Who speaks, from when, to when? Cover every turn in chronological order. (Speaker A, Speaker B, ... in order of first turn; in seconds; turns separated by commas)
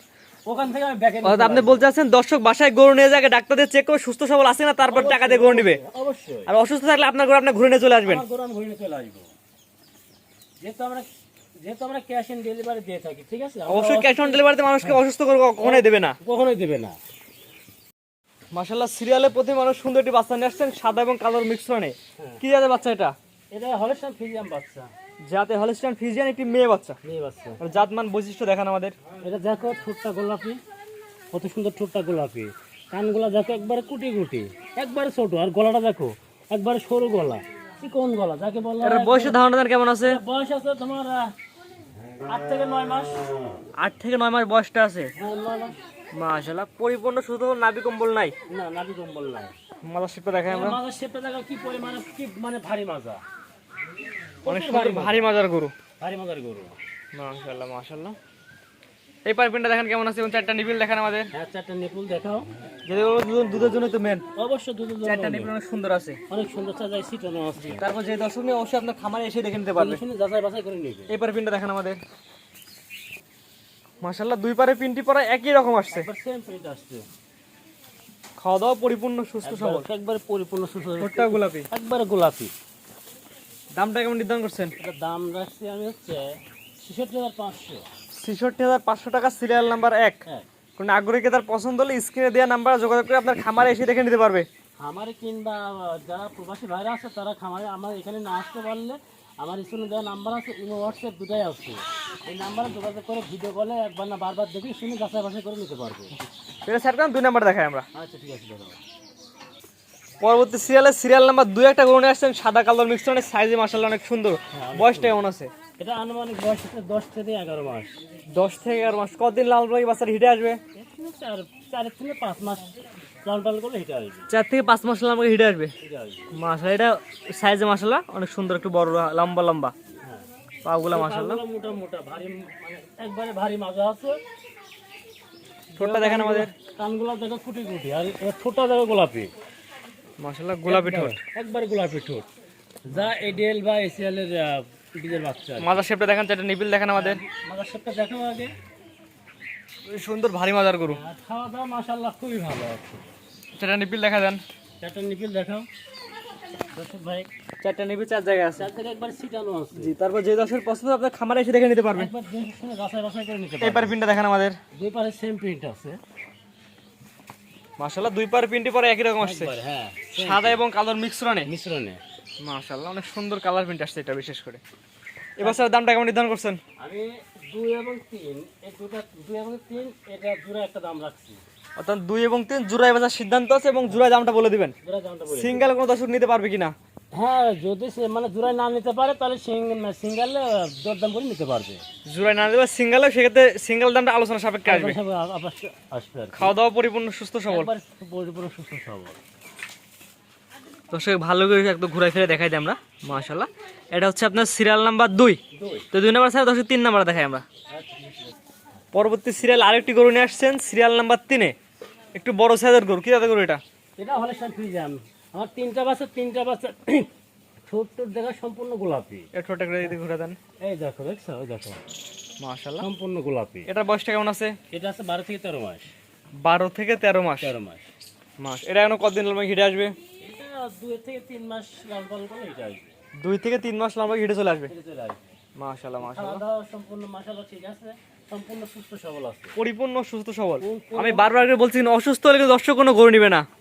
Speaker A: 0.5-1.9, Speaker B: 1.2-5.8, Speaker A: 4.9-6.5, Speaker B: 6.5-8.2, Speaker A: 8.0-9.3, Speaker A: 10.6-11.1, Speaker A: 11.6-15.0, Speaker B: 13.7-16.2, Speaker A: 15.6-17.0, Speaker B: 18.5-23.1, Speaker A: 22.2-22.4, Speaker A: 23.5-24.9, Speaker B: 25.3-27.0, Speaker A: 27.0-27.6, Speaker B: 27.6-28.9, Speaker A: 29.2-30.6, Speaker A: 31.3-39.4, Speaker B: 38.8-40.2, Speaker A: 40.0-41.3, Speaker A: 42.3-43.3, Speaker B: 43.8-45.1, Speaker A: 45.2-45.8, Speaker B: 46.1-48.4, Speaker A: 48.5-49.5, Speaker B: 49.8-50.8, Speaker A: 50.5-53.2, Speaker A: 54.4-55.3, Speaker B: 54.5-55.7, Speaker A: 56.0-56.8, Speaker B: 57.1-58.2, Speaker B: 59.2-61.3, Speaker A: 61.3-62.5, Speaker B: 62.9-64.2, Speaker A: 64.3-65.5, Speaker B: 65.0-66.2, Speaker A: 66.3-67.8, Speaker B: 67.6-70.0, Speaker A: 69.8-71.1, Speaker B: 71.1-72.0, Speaker B: 74.0-76.1, Speaker A: 75.9-77.0, Speaker B: 78.4-79.9, Speaker A: 79.4-82.5, Speaker B: 81.0-81.7, Speaker B: 83.8-84.7, Speaker A: 84.8-87.9, Speaker B: 88.2-90.2, Speaker B: 90.8-94.5, Speaker A: 94.8-106.2, Speaker B: 106.7-107.9, Speaker A: 107.9-108.8, Speaker B: 110.2-115.5, Speaker A: 114.5-115.2, Speaker A: 115.8-117.9, Speaker B: 118.3-120.6, Speaker A: 120.7-124.3, Speaker B: 124.3-125.7, Speaker A: 125.8-126.3, Speaker B: 126.3-129.7, Speaker B: 130.7-131.4, Speaker A: 130.9-134.2, Speaker A: 135.7-139.3, Speaker B: 135.8-136.5, Speaker B: 140.2-141.2, Speaker A: 140.7-142.3, Speaker A: 142.9-145.8, Speaker B: 145.6-147.2, Speaker A: 146.9-148.5, Speaker B: 149.9-151.0, Speaker A: 150.9-153.1, Speaker B: 153.6-154.4, Speaker A: 154.8-155.7, Speaker A: 156.8-157.3, Speaker B: 157.6-158.7, Speaker A: 158.6-159.9, Speaker B: 159.8-162.1, Speaker A: 161.9-163.9, Speaker B: 163.6-164.6, Speaker A: 164.7-166.0, Speaker B: 167.8-169.5, Speaker A: 169.2-170.6, Speaker B: 170.2-171.5, Speaker A: 171.4-172.0, Speaker B: 172.4-174.6, Speaker B: 175.4-176.6, Speaker A: 176.8-181.4, Speaker B: 181.8-184.8, Speaker A: 184.8-185.7, Speaker B: 185.3-186.7, Speaker A: 187.1-191.8, Speaker B: 192.1-195.0, Speaker A: 194.7-196.5, Speaker B: 196.3-197.7, Speaker A: 197.5-199.2, Speaker B: 200.9-205.4, Speaker A: 205.5-205.9, Speaker B: 205.9-207.4, Speaker A: 207.7-208.4, Speaker B: 208.9-211.6, Speaker B: 212.2-213.6, Speaker A: 214.0-217.1, Speaker A: 217.7-219.3, Speaker B: 219.3-220.4, Speaker A: 220.6-221.8, Speaker B: 222.4-222.9, Speaker A: 222.8-223.7, Speaker B: 223.7-224.6, Speaker A: 224.7-225.9, Speaker B: 226.4-227.5, Speaker A: 227.4-227.9, Speaker B: 228.4-230.0, Speaker A: 230.2-232.9, Speaker B: 233.2-234.7, Speaker A: 234.7-235.4, Speaker B: 235.6-236.4, Speaker A: 236.0-239.6, Speaker B: 239.6-243.5, Speaker A: 240.6-241.4